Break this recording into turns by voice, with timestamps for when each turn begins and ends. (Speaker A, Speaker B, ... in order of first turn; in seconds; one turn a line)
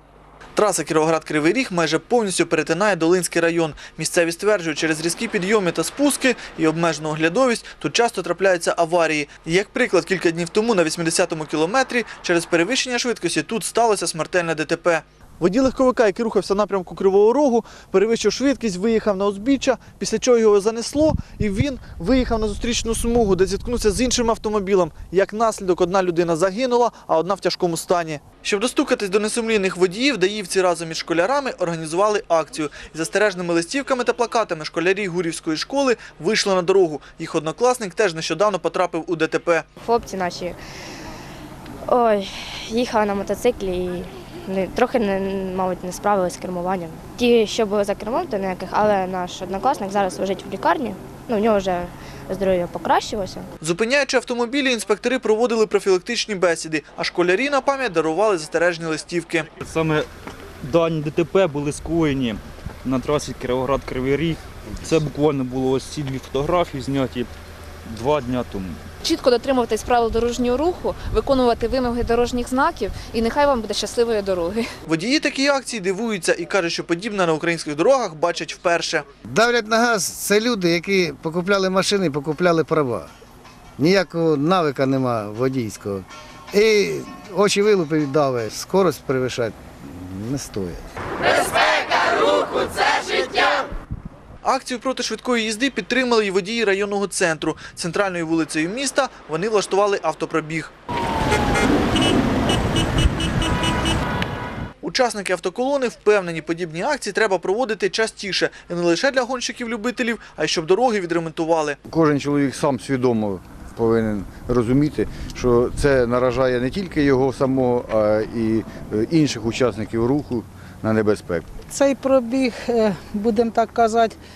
Speaker A: 0.6-39.6
Speaker B: 39.8-40.6
Speaker B: 41.9-53.5
Speaker A: 53.6-59.5
Speaker C: 59.6-60.1
Speaker C: 60.6-67.3
Speaker C: 67.9-68.8
Speaker D: 69.0-74.7
Speaker A: 74.9-79.1
Speaker E: 79.3-83.1
Speaker E: 83.8-90.8
Speaker A: 94.4-100.7
Speaker A: 104.8-111.8
Speaker F: 111.9-121.5
Speaker G: 121.7-124.2